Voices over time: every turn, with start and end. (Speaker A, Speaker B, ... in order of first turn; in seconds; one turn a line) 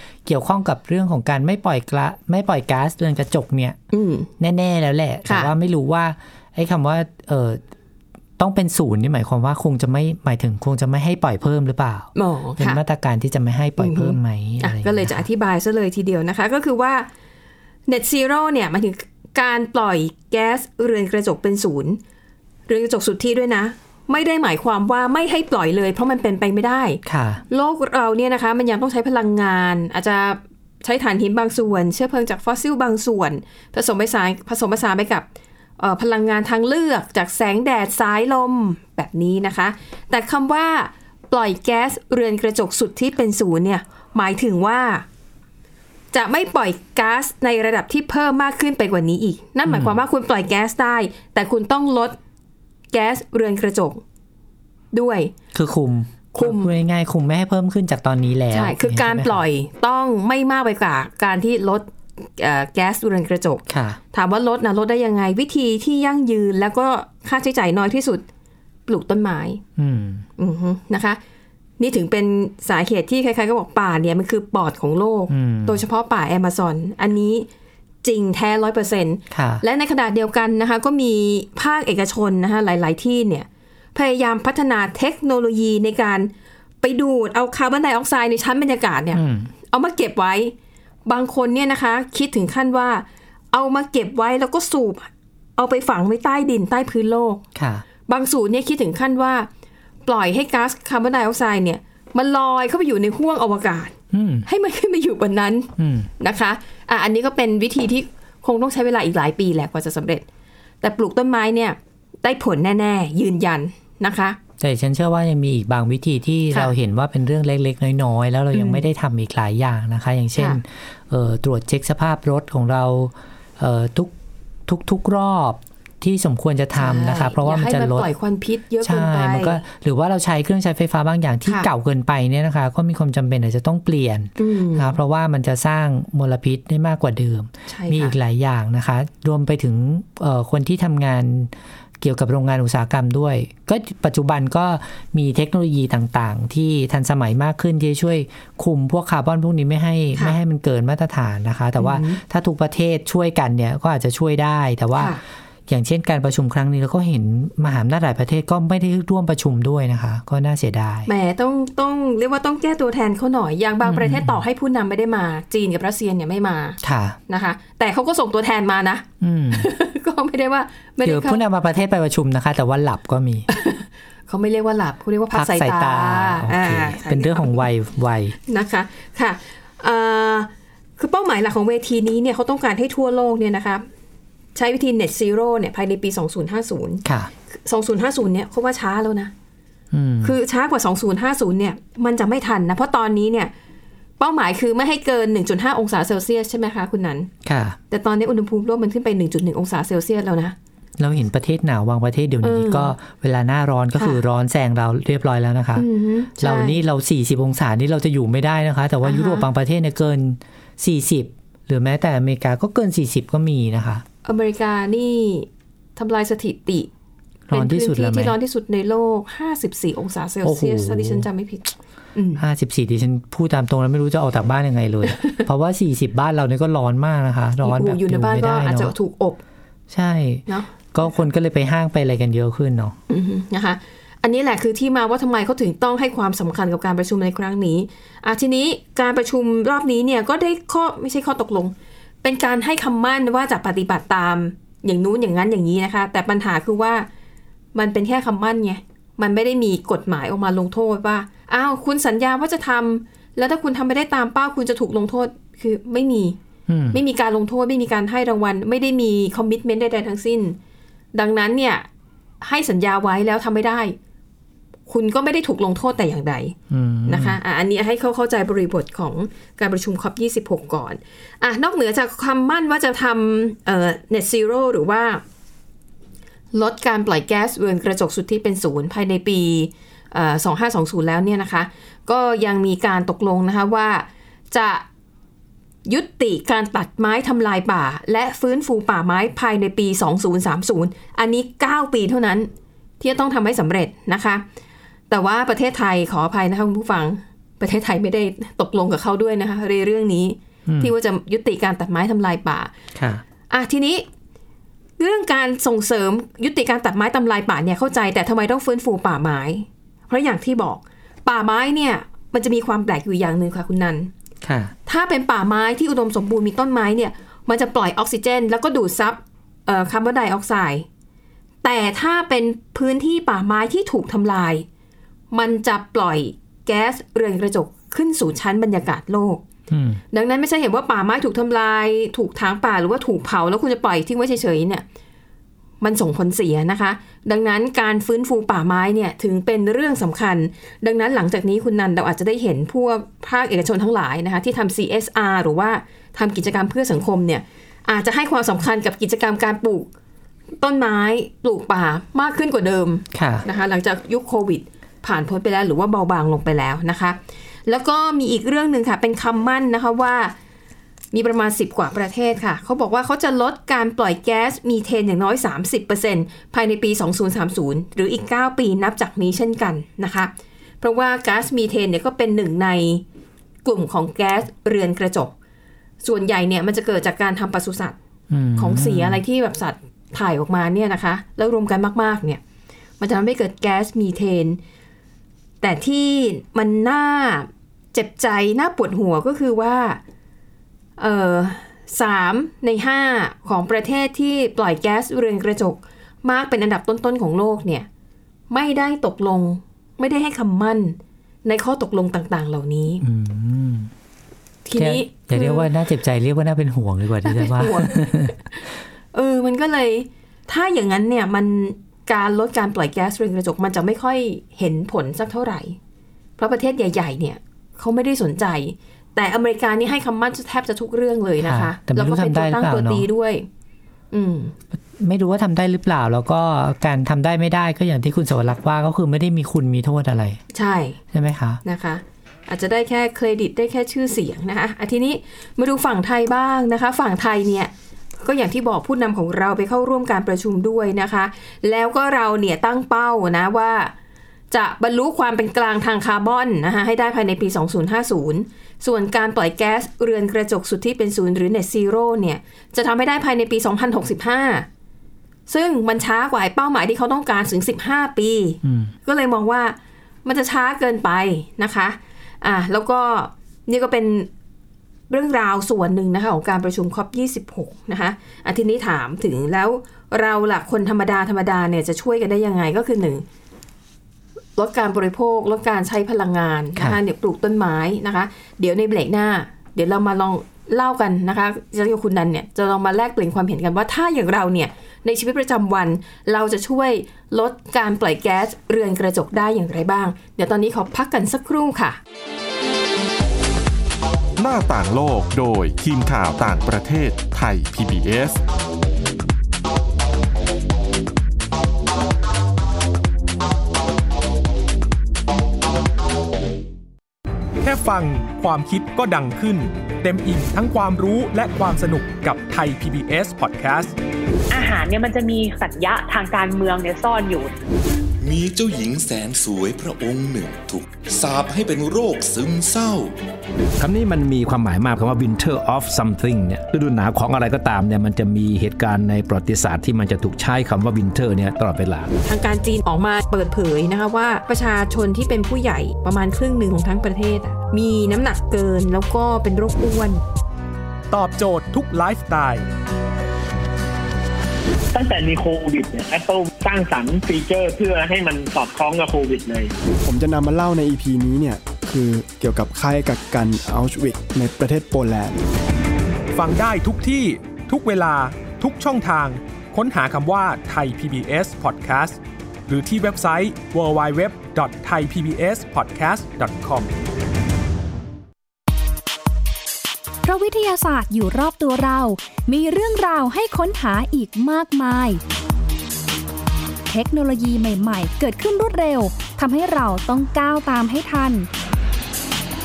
Speaker A: 0.2-3.8
Speaker B: 3.9-4.3
Speaker A: 4.4-7.6
Speaker B: 5.3-5.5
Speaker A: 8.4-15.2
Speaker B: 12.2-12.8
Speaker B: 13.8-17.1
Speaker B: 17.9-22.0
Speaker B: 22.7-35.3
Speaker A: 27.1-27.4
Speaker B: 35.8-45.0
Speaker B: 46.1-52.2
Speaker A: 49.7-50.0
Speaker B: 52.9-54.0
Speaker B: 54.9-55.3
Speaker A: 55.5-59.4
Speaker B: 56.3-56.7
Speaker B: 58.5-68.2
Speaker A: 63.7-64.0
Speaker B: 68.9-69.6
Speaker A: 69.8-70.3
Speaker B: 70.4-71.2
Speaker B: 71.8-77.5
Speaker A: 75.3-75.8
Speaker B: 78.0-86.3
Speaker A: 79.3-79.6
Speaker B: 86.8-90.5
Speaker A: 89.1-89.5
Speaker B: 91.1-97.4
Speaker A: 97.5-97.8
Speaker B: 98.1-99.5
Speaker B: 100.0-104.0
Speaker A: 104.1-104.5
Speaker B: 104.5-110.2
Speaker A: 105.8-106.1
Speaker B: 110.8-114.4
Speaker A: 114.6-124.1
Speaker B: 118.5-118.8
Speaker A: 124.7-128.1
Speaker B: 126.8-129.6
Speaker A: 128.8-161.1
Speaker B: 134.4-134.9
Speaker B: 137.7-138.2
Speaker B: 151.8-152.2
Speaker B: 155.0-155.2
Speaker B: 161.1-171.4
Speaker A: 163.8-164.4
Speaker A: 166.8-167.2
Speaker A: 169.2-169.7
Speaker A: 171.0-173.5
Speaker B: 173.5-177.6
Speaker A: 175.3-178.4
Speaker B: 178.5-183.8
Speaker B: 184.6-189.3
Speaker A: 187.1-187.3
Speaker A: 189.9-190.4
Speaker B: 190.2-193.5
Speaker B: 194.2-197.3
Speaker A: 197.4-197.8
Speaker B: 197.9-200.6
Speaker A: 201.0-214.0
Speaker B: 202.4-202.9
Speaker B: 205.8-206.8
Speaker B: 209.0-209.4
Speaker B: 214.2-216.9
Speaker A: 217.5-218.4
Speaker B: 217.5-222.4
Speaker A: 220.4-221.3
Speaker A: 222.4-228.9
Speaker B: 225.1-225.4
Speaker B: 227.6-229.4
Speaker A: 229.9-233.0
Speaker B: 230.5-230.7
Speaker B: 233.1-247.1
Speaker B: 247.7-256.4
Speaker A: 256.7-257.0
Speaker B: 256.9-260.6
Speaker B: 261.1-261.9
Speaker B: 262.4-264.0
Speaker B: 264.9-275.2
Speaker A: 266.7-267.4
Speaker B: 276.5-284.9
Speaker B: 285.9-292.5
Speaker B: 293.0-294.4
Speaker B: 295.1-302.7
Speaker A: 300.7-300.9
Speaker A: 302.9-303.2
Speaker B: 303.5-304.1
Speaker B: 305.0-314.1
Speaker A: 314.4-314.7
Speaker B: 314.9-320.9
Speaker B: 321.6-324.7
Speaker B: 325.3-329.4
Speaker A: 329.7-330.0
Speaker B: 330.1-334.8
Speaker B: 335.8-349.9
Speaker B: 350.6-360.4
Speaker A: 353.1-353.4
Speaker B: 361.1-373.0
Speaker B: 373.6-375.3
Speaker B: 376.0-378.0
Speaker A: 378.3-379.2
Speaker B: 378.6-382.4
Speaker B: 383.0-384.6
Speaker B: 385.6-390.0
Speaker B: 391.0-397.9
Speaker B: 398.5-403.0
Speaker A: 403.0-403.9
Speaker B: 404.6-405.7
Speaker A: 404.8-408.3
Speaker B: 407.2-408.6
Speaker B: 409.1-415.8
Speaker B: 416.4-423.5
Speaker A: 421.4-423.1
Speaker B: 424.1-424.6
Speaker A: 425.0-430.4
Speaker B: 430.5-431.0
Speaker A: 431.1-431.6
Speaker B: 431.6-443.9
Speaker B: 444.5-454.7
Speaker B: 455.5-464.3
Speaker A: 458.6-458.9
Speaker B: 465.1-473.2
Speaker B: 474.6-492.0
Speaker C: 494.4-498.4
Speaker D: 507.6-514.0
Speaker E: 514.5-517.5
Speaker F: 518.2-523.1
Speaker G: 523.8-532.1
Speaker B: 532.2-540.2
Speaker D: 541.1-542.7
Speaker H: 544.9-549.7
Speaker I: 550.0-555.4
Speaker D: 556.3-566.9
Speaker J: 570.2-575.2
Speaker J: 576.9-581.5